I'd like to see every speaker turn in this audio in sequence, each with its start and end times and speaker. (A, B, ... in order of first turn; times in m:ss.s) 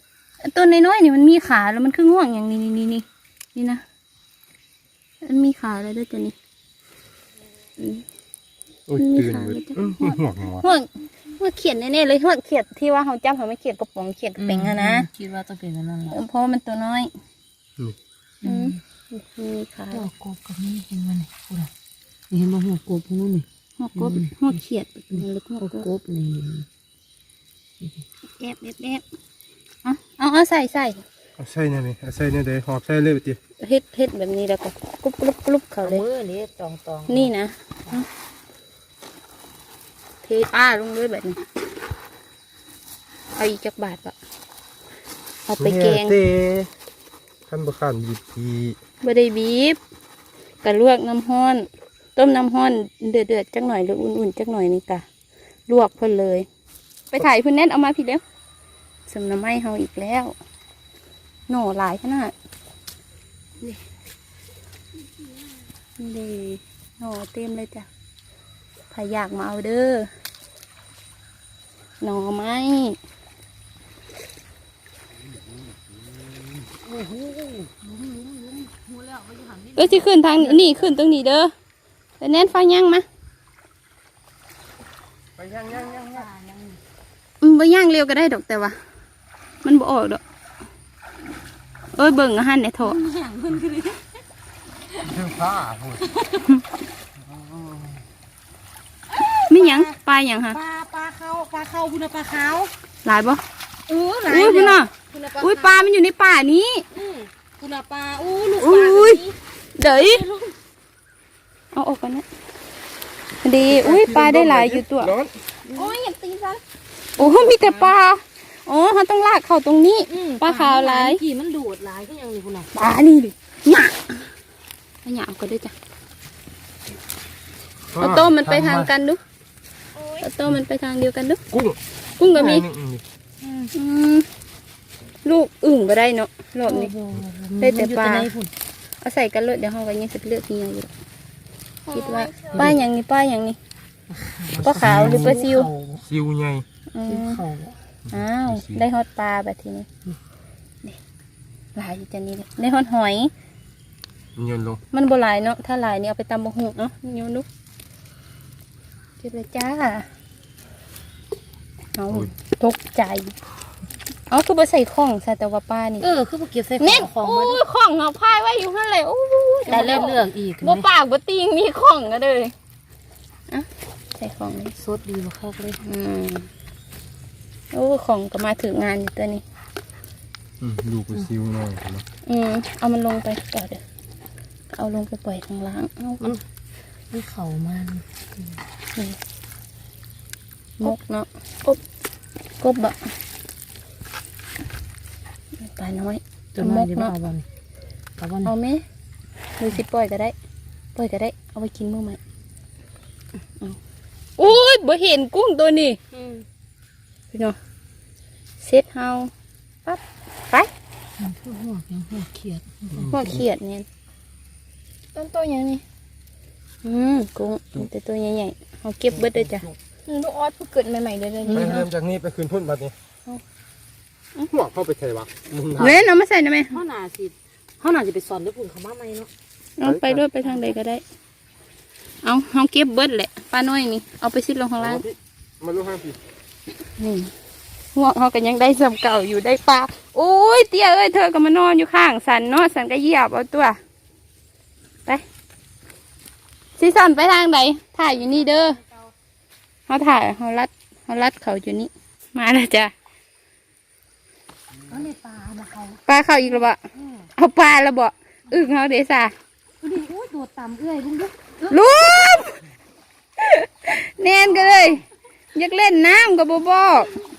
0:00.4-0:03.8 A
0:05.2-0:06.3 A
0:07.8-0:08.0 A
0:08.9-0:10.6 B
0:09.0-0:15.1 A
0:14.4-0:16.2 C
0:16.1-0:17.1 A
0:18.4-0:18.8 C
0:18.4-0:20.1 A
0:19.9-0:21.7 C
0:22.3-0:24.4 C
0:23.8-0:25.9 A
0:25.1-0:26.7 C
0:28.4-0:29.0 A
0:29.8-0:31.0 A
0:31.4-0:33.4 B
0:33.6-0:36.0 A
0:35.8-0:37.3 C
0:37.1-0:38.1 A
0:40.2-0:41.4 A
0:43.4-0:44.1 A
0:45.5-0:46.2 A
0:45.6-0:46.7 B
0:47.5-0:48.8 B
0:49.0-0:49.8 A
0:50.6-0:55.0 A
0:55.7-0:56.5 A
0:57.1-0:58.2 A
0:59.1-1:00.3 A
1:01.5-1:02.3 A
1:06.0-1:07.9 A
1:08.9-1:10.1 A
1:12.0-1:13.0 A
1:15.6-1:16.4 B
1:16.9-1:20.9 C
1:19.7-1:21.5 A
1:22.2-1:23.0 A
1:25.4-1:26.3 B
1:25.7-1:26.8 C
1:27.4-1:28.8 A
1:29.6-1:30.2 A
1:31.9-1:33.0 A
1:32.8-1:34.1 C
1:35.0-1:36.0 B
1:36.1-1:36.4 C
1:37.3-1:37.9 B
1:39.1-1:39.9 C
1:39.5-1:40.6 A
1:40.5-1:42.7 C
1:43.0-1:43.4 A
1:43.9-1:45.9 C
1:44.2-1:46.8 A
1:46.9-1:50.5 C
1:48.6-1:49.2 A
1:49.8-1:50.2 A
1:51.7-1:52.2 A
1:53.4-1:55.2 A
1:53.7-1:55.3 B
1:55.7-1:56.6 A
1:57.2-2:01.2 A
1:57.2-1:57.9 C
2:00.1-2:02.7 C
2:02.7-2:04.3 A
2:05.0-2:05.7 A
2:07.9-2:08.9 B
2:08.0-2:09.2 A
2:10.2-2:11.4 A
2:11.5-2:13.0 B
2:12.2-2:12.7 A
2:13.4-2:13.7 C
2:13.7-2:14.3 A
2:15.2-2:16.9 A
2:16.7-2:18.5 C
2:17.6-2:18.3 A
2:19.0-2:20.9 A
2:21.9-2:22.8 C
2:21.9-2:23.6 A
2:24.1-2:26.0 C
2:24.5-2:25.4 B
2:24.6-2:25.7 A
2:26.0-2:26.6 B
2:26.9-2:27.4 A
2:27.0-2:27.8 C
2:28.1-2:29.9 A
2:28.1-2:28.8 B
2:31.7-2:33.3 A
2:34.4-2:34.8 B
2:34.9-2:37.4 A
2:39.2-2:40.1 A
2:41.9-2:43.3 A
2:44.3-2:46.1 A
2:46.0-2:47.6 C
2:46.8-2:52.5 A
2:49.7-2:50.8 C
2:53.5-2:54.7 A
2:54.8-2:55.8 C
2:55.8-2:56.5 A
2:57.7-2:59.4 A
3:00.6-3:02.0 B
3:02.2-3:03.8 A
3:04.7-3:06.3 A
3:07.1-3:08.6 C
3:10.8-3:11.8 A
3:12.6-3:13.0 A
3:15.6-3:17.1 A
3:16.5-3:17.4 C
3:18.2-3:18.5 C
3:18.4-3:18.8 A
3:19.6-3:20.3 A
3:20.9-3:22.2 A
3:24.4-3:26.0 A
3:26.1-3:26.4 C
3:27.3-3:27.6 A
3:28.6-3:29.3 A
3:29.8-3:30.7 A
3:31.2-3:33.4 C
3:32.9-3:33.4 B
3:33.1-3:33.8 A
3:35.1-3:35.8 A
3:36.8-3:41.8 A
3:41.4-3:41.8 C
3:41.5-3:42.9 B
3:44.4-3:46.1 B
3:45.8-3:46.8 A
3:46.7-3:49.3 C
3:49.8-3:51.0 A
3:49.8-3:50.2 B
3:52.2-3:55.0 A
3:54.8-3:56.2 B
3:57.0-3:57.3 A
3:57.9-4:03.8 A
4:06.8-4:08.8 A
4:09.9-4:12.9 A
4:14.9-4:17.3 C
4:16.1-4:16.8 A
4:17.3-4:19.3 A
4:19.8-4:22.1 C
4:21.6-4:22.6 A
4:23.4-4:27.1 A
4:24.6-4:25.0 C